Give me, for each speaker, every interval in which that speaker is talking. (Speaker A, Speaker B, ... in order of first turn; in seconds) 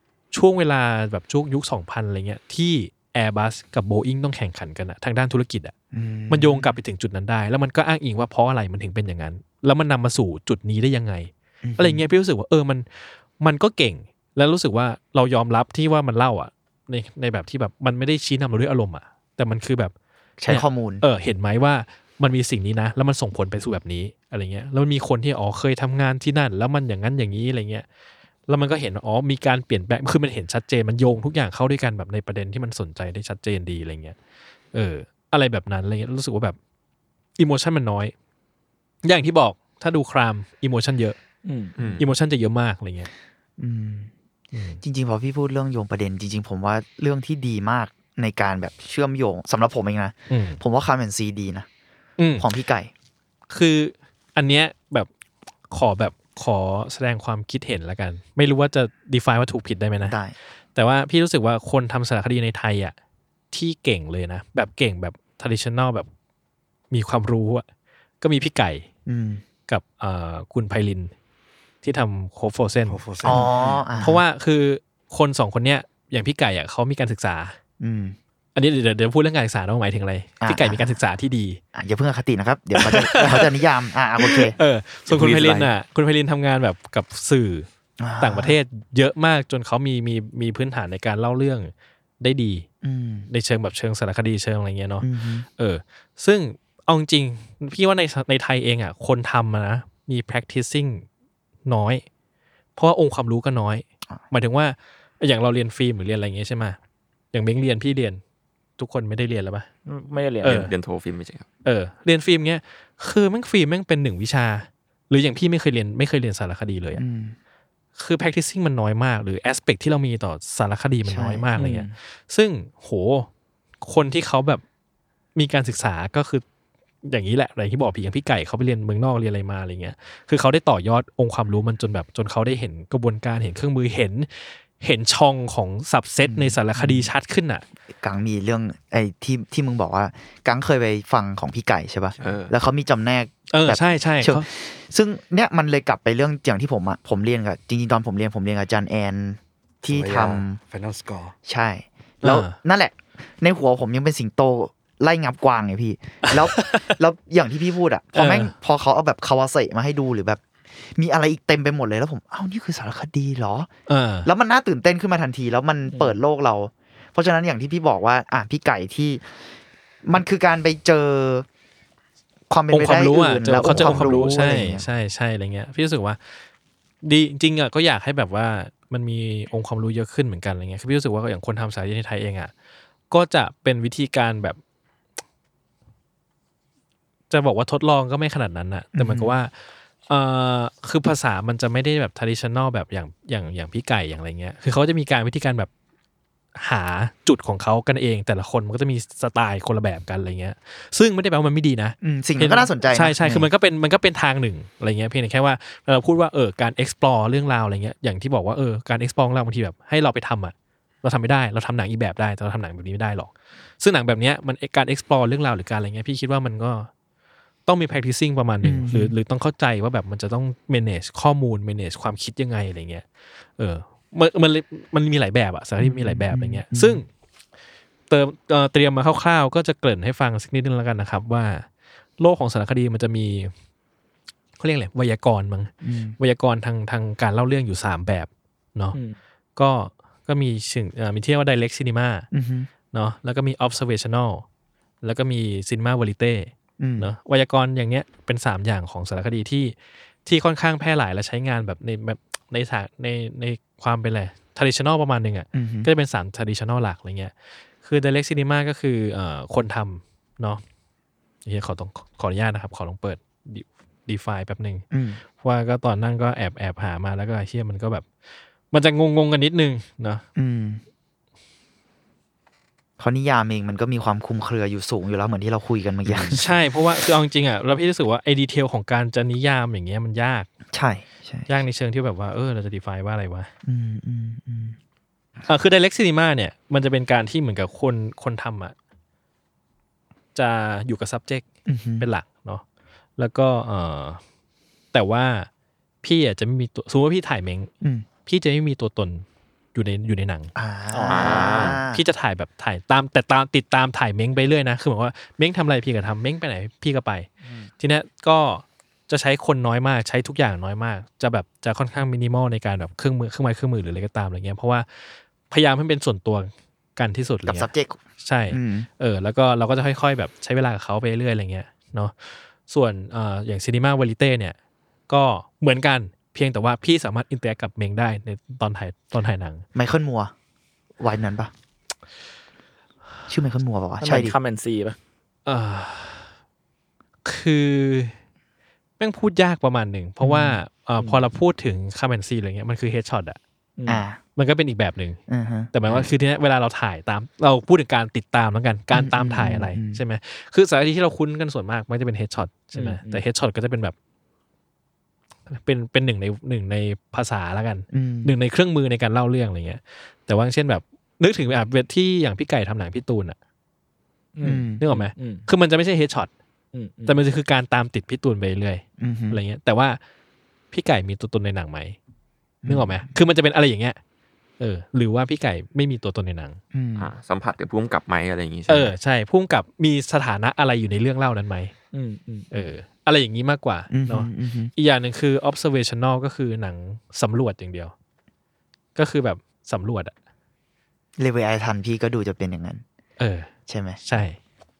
Speaker A: 0.3-5.7, 6.3-12.8, 13.4-19.9, 20.5-27.8, 28.5-34.1, 34.7-36.6, 37.4-38.1, 39.0-41.1, 42.0-43.1, 44.5-44.8, 50.3-50.6, 52.2-52.5, 53.5-55.1, 55.7-60.1, 60.7-62.9, 63.5-66.1, 66.9-67.6, 68.2-68.8, 69.7-71.1, 71.8-77.5, 78.5-81.6, 82.8-83.5, 84.2-87.7, 88.2-92.7, 93.3-101.0, 101.7-102.0, 102.8-106.8, 107.3-108.2, 108.8-109.7, 110.4-110.7, 111.6-117.0, 118.0-123.3, 123.8-124.6, 125.3-126.4, 127.0-137.6, 143.5-144.4, 152.2-152.5, 156.3-156.9, 158.1-158.5, 163.9-164.3, 172.7-176.4, 177.0-182.5, 183.1-184.6, 187.3-189.5, 190.1-195.7, 196.6-216.9, 217.7-223.0, 223.6-227.1, 228.1-231.7, 232.2-233.5, 234.6-239.0, 239.6-242.3, 242.9-244.4, 245.0-260.6, 261.4-264.8, 265.4-268.1, 268.7-270.2, 276.3-280.5, 281.5-283.5, 285.5-288.7, 290.3-291.5, 292.0-292.6, 293.2-294.2, 294.9-295.5, 296.0-297.7, 298.2-300.5, 301.9-307.3, 307.8-317.7, 318.2-324.6, 325.1-329.6, 335.4-336.3, 337.2-338.1, 339.0-343.4, 344.4-345.2, 345.7-353.9, 355.5-363.4, 364.8-366.3, 367.1-370.0, 370.7-372.0, 372.7-374.0, 374.6-376.6, 378.7-381.7, 382.5-387.9, 388.9-390.1, 393.2-393.5, 394.0-394.4
Speaker B: 5.9-6.7, 11.6-12.0, 20.4-21.0, 43.6-44.1, 44.8-51.6, 52.4-52.9, 60.0-60.3, 69.1-69.4, 73.2-74.2, 77.8-78.2, 80.4-81.0, 81.7-84.5, 88.0-88.6, 92.8-93.3, 95.0-95.5, 116.9-117.3, 121.0-121.5, 136.2-137.1, 138.0-150.6, 151.5-163.7, 164.2-169.2, 170.0-171.4, 172.5-174.9, 188.9-189.3, 202.0-203.5, 218.6-219.1, 225.8-227.0, 235.8-236.2, 242.3-242.7, 246.8-247.1, 255.5-255.9, 264.9-265.2, 270.4-270.8, 273.0-276.5, 280.7-281.5, 283.6-284.8, 291.7-292.1, 297.8-298.1, 300.6-302.0, 317.4-318.0, 318.5-318.9, 329.7-330.3, 331.0-331.5, 333.3-334.4, 340.2-340.6, 343.9-344.2, 345.3-345.7, 348.9-350.0, 357.9-358.4, 364.4-364.8, 369.0-369.4, 372.6-373.1, 376.7-377.1, 383.9-384.7, 391.2-392.8, 393.7-394.0
Speaker C: 41.4-41.7, 109.8-110.7, 121.5-121.9, 165.9-166.2, 300.9-301.8, 334.0-334.9, 343.8-344.0, 352.7-353.2, 364.3-365.4, 366.7-367.2, 381.9-382.5
Speaker D: 41.8-42.0, 85.3-85.6, 110.4-111.5, 142.2-142.5, 276.1-276.4, 301.1-301.8, 377.0-378.9
Speaker E: 72.9-73.9, 85.1-85.7, 142.2-142.4, 149.8-151.3